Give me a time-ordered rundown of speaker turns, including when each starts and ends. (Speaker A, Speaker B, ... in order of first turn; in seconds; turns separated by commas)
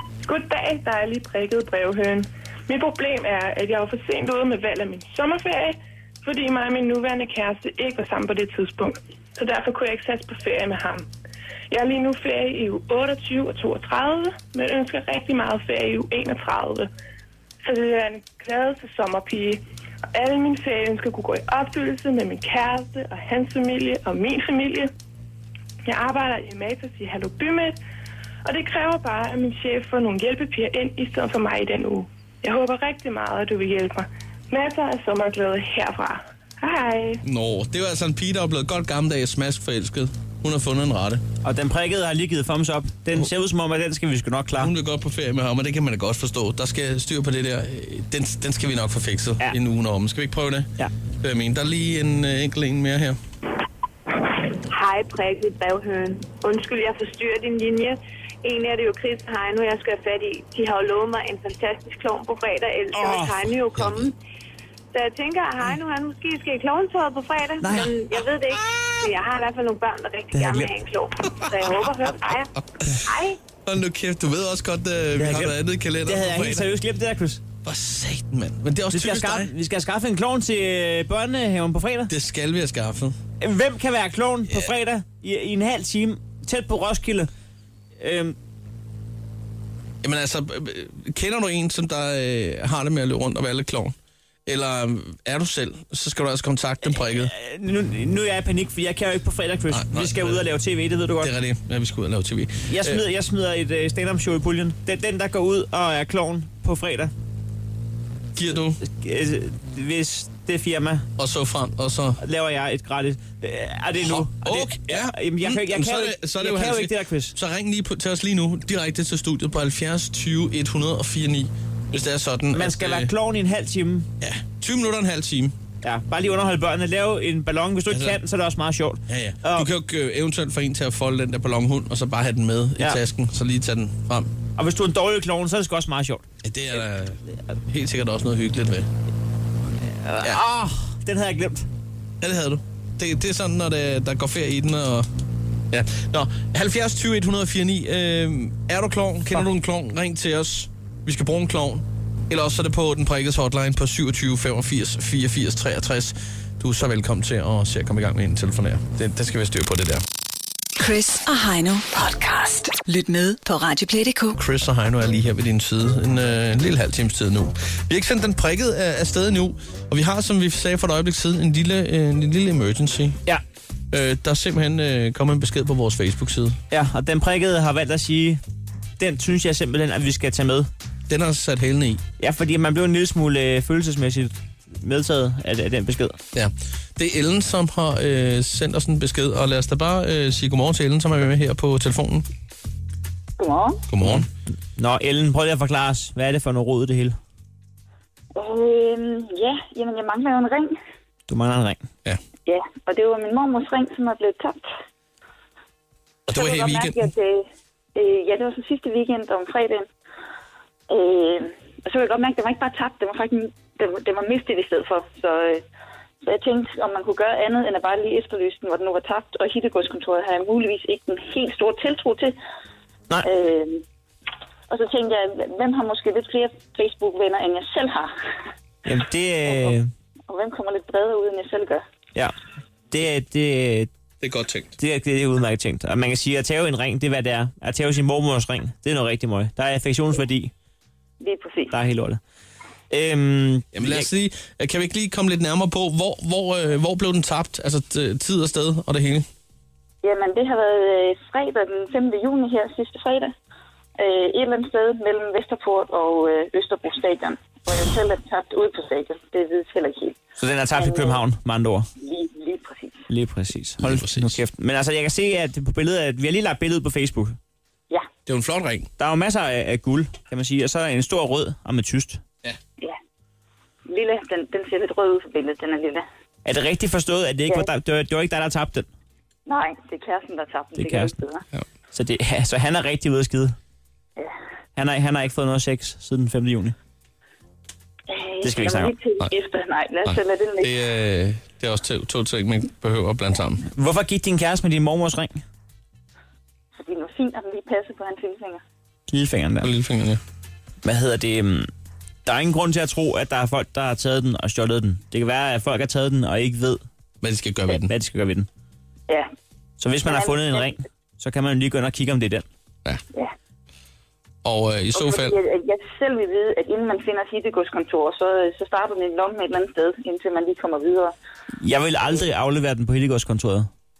Speaker A: 0.2-11.1, Speaker A: 11.7-16.9, Speaker A: 17.6-19.6, Speaker A: 20.1-24.9, Speaker A: 25.9-27.8, Speaker A: 28.4-37.2, Speaker B: 37.2-41.2, Speaker C: 41.4-44.7, Speaker B: 44.6-53.2, Speaker D: 54.7-64.1, Speaker C: 62.9-63.4, Speaker D: 64.9-72.5, Speaker C: 67.6-67.9, Speaker C: 70.3-70.7, Speaker B: 72.6-72.9, Speaker D: 73.0-73.4, Speaker B: 73.7-76.7, Speaker C: 75.2-77.4, Speaker B: 77.6-79.5, Speaker C: 78.9-82.1, Speaker B: 82.1-83.2, Speaker C: 83.4-87.3, Speaker C: 88.0-88.4, Speaker B: 90.0-94.0, Speaker B: 94.5-97.3, Speaker C: 96.9-101.3, Speaker B: 99.7-100.5, Speaker B: 101.2-103.0, Speaker C: 102.7-107.1, Speaker B: 108.4-108.8, Speaker C: 108.8-111.1, Speaker B: 111.2-112.2, Speaker C: 112.2-117.4, Speaker B: 114.0-123.1, Speaker C: 122.5-124.1, Speaker B: 124.2-125.5, Speaker C: 125.8-129.7, Speaker B: 127.9-128.2, Speaker B: 129.1-134.3, Speaker C: 134.6-136.3, Speaker B: 136.4-138.9, Speaker C: 140.0-141.7, Speaker B: 142.2-145.1, Speaker B: 145.7-160.0, Speaker E: 160.8-164.3, Speaker B: 164.3-173.2, Speaker B: 173.9-176.6, Speaker C: 176.7-178.4, Speaker C: 179.0-180.7, Speaker B: 181.1-182.0, Speaker C: 182.2-186.2, Speaker B: 186.3-192.2, Speaker F: 193.4-193.8, Speaker B: 193.9-194.3, Speaker C: 194.0-197.2, Speaker F: 198.3-200.8, Speaker C: 201.3-201.9, Speaker F: 202.5-204.7, Speaker B: 206.3-207.1, Speaker F: 206.3-209.9, Speaker F: 210.9-215.6, Speaker F: 216.2-222.4, Speaker F: 223.2-223.8, Speaker F: 224.7-228.1, Speaker C: 228.9-229.9, Speaker F: 230.3-231.8, Speaker C: 232.9-233.9, Speaker B: 234.2-234.8, Speaker C: 234.8-240.5, Speaker F: 241.2-241.8, Speaker C: 241.7-242.2, Speaker C: 242.9-244.1, Speaker B: 243.7-249.3, Speaker F: 250.0-253.3, Speaker F: 254.0-260.2, Speaker C: 260.4-261.9, Speaker F: 260.7-261.2, Speaker F: 262.0-263.0, Speaker C: 263.1-267.4, Speaker B: 263.8-264.4, Speaker B: 268.3-268.9, Speaker C: 269.0-272.2, Speaker F: 273.9-276.1, Speaker C: 276.4-278.9, Speaker F: 279.5-281.4, Speaker C: 280.8-281.1, Speaker C: 281.9-283.6, Speaker C: 284.8-286.8, Speaker F: 288.1-290.7, Speaker C: 288.4-288.9, Speaker B: 290.1-293.6, Speaker C: 293.7-295.4, Speaker F: 296.8-298.6, Speaker C: 299.1-299.7, Speaker B: 299.6-300.2, Speaker C: 300.8-301.7, Speaker C: 302.2-306.8, Speaker B: 307.2-307.9, Speaker C: 307.7-308.5, Speaker C: 309.8-312.5, Speaker F: 310.1-310.8, Speaker B: 314.4-315.4, Speaker F: 314.9-321.1, Speaker C: 321.6-323.7